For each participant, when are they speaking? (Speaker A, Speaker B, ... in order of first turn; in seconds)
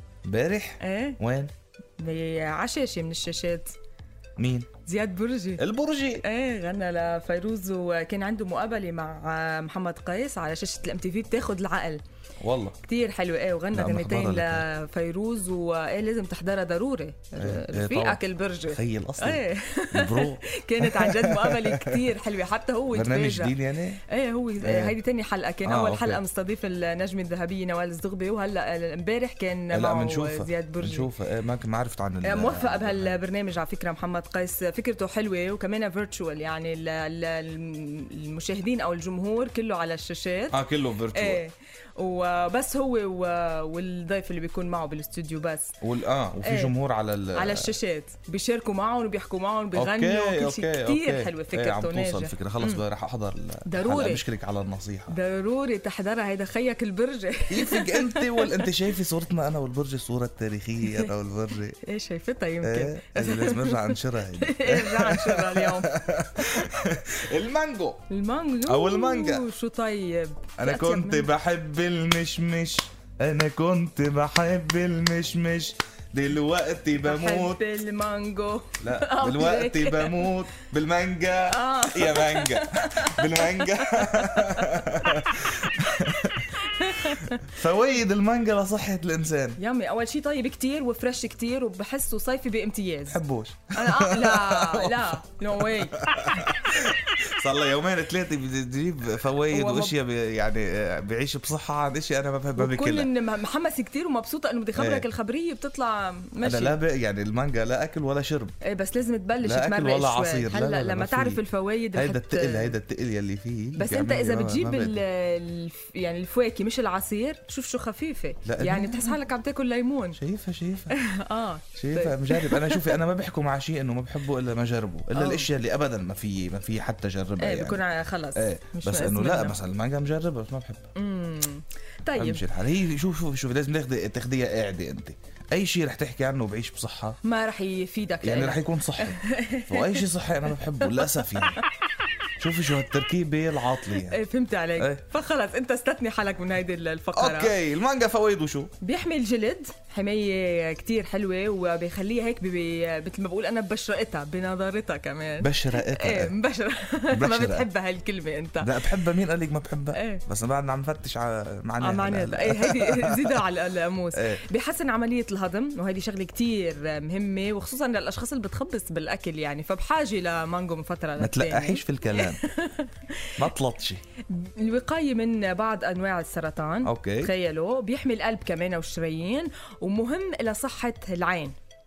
Speaker A: 0.2-1.5, 4.4-4.7, 5.6-6.2, 12.4-12.8, 13.7-14.7, 17.4-22.1, 22.9-24.0, 24.6-25.0, 25.6-26.2, 29.7-33.2, 40.5-41.4, 45.8-47.7, 49.7-55.1, 57.5-61.8, 62.6-68.0, 68.7-69.5, 70.6-77.6, 78.8-89.6, 93.1-103.1, 104.7-105.1, 106.4-108.5, 109.4-115.0, 118.4-119.2, 120.1-121.0, 121.7-127.8, 128.3-130.9, 132.2-137.2, 138.2-141.6, 142.4-144.2, 144.8-145.0, 147.1-148.7, 155.4-156.3, 157.1-157.7, 158.6-163.4, 164.1-164.4, 171.2-172.4, 173.4-174.0, 176.8-177.3
Speaker B: 0.8-1.2, 2.0-3.7, 4.8-5.6, 6.2-12.0, 12.8-31.1, 32.2-40.6, 41.1-45.7, 46.4-46.7, 47.3-52.8, 53.6-54.2, 55.1-58.8, 60.8-61.1, 61.8-66.8, 68.1-71.3, 77.0-80.4, 81.5-87.6, 89.6-93.2, 93.7-96.5, 99.5-100.0, 102.5-106.8, 108.6-112.8, 113.8-120.2, 120.9-123.0, 125.1-125.5, 127.4-129.6, 130.9-132.5, 137.2-140.1, 140.8-141.6, 143.8-147.6, 148.8-158.9, 159.9-160.2, 161.8-173.4, 174.3-181.5